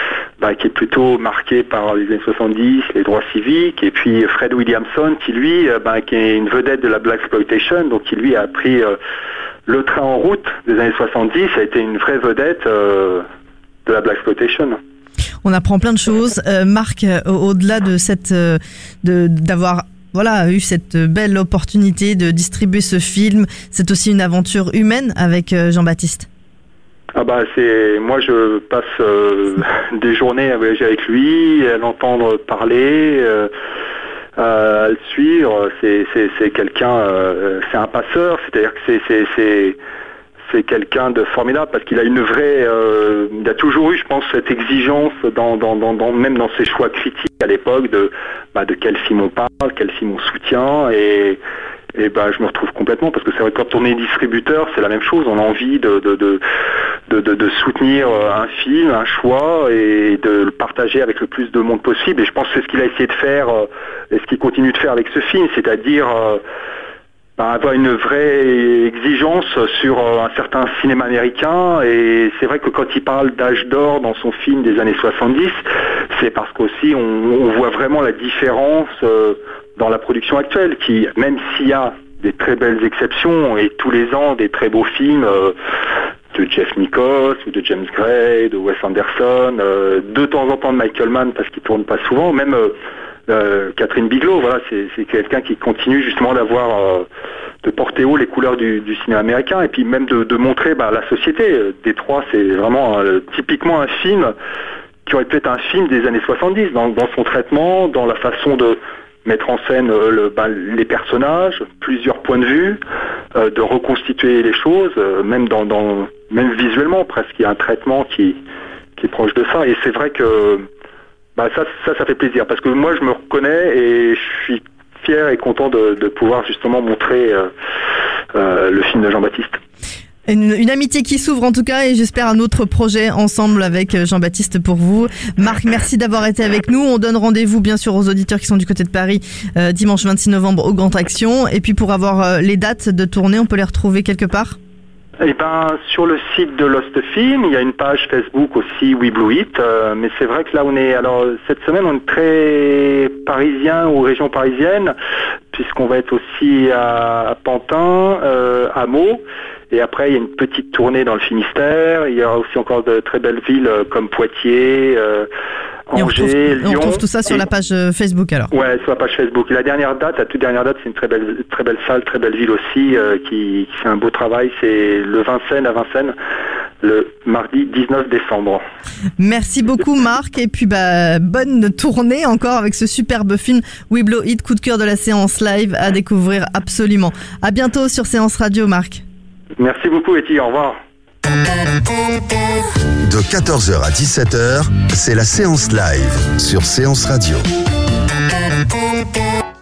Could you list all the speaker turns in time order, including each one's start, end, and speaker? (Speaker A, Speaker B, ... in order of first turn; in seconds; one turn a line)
Speaker A: 0.4-8.9
Speaker A: 9.7-13.2
Speaker A: 13.8-14.8
Speaker B: 15.4-26.3
Speaker A: 27.1-33.5
Speaker A: 34.4-39.8
Speaker A: 40.5-51.4
Speaker A: 51.9-56.4
Speaker A: 57.1-66.4
Speaker A: 67.4-85.5
Speaker A: 86.3-92.8
Speaker A: 93.3-97.0
Speaker A: 97.6-104.3
Speaker A: 105.0-112.8
Speaker A: 113.3-118.4
Speaker A: 119.0-120.7
Speaker A: 121.3-127.5
Speaker A: 128.3-129.6
Speaker B: 130.3-144.6
Speaker A: 145.2-154.9
Speaker A: 155.5-165.3
Speaker A: 165.9-167.0
Speaker B: 165.9-168.5
Speaker A: 168.5-176.2
Speaker A: 176.8-178.6
Speaker B: 179.2-189.0
Speaker A: 189.6-190.8
Speaker C: 193.0-197.4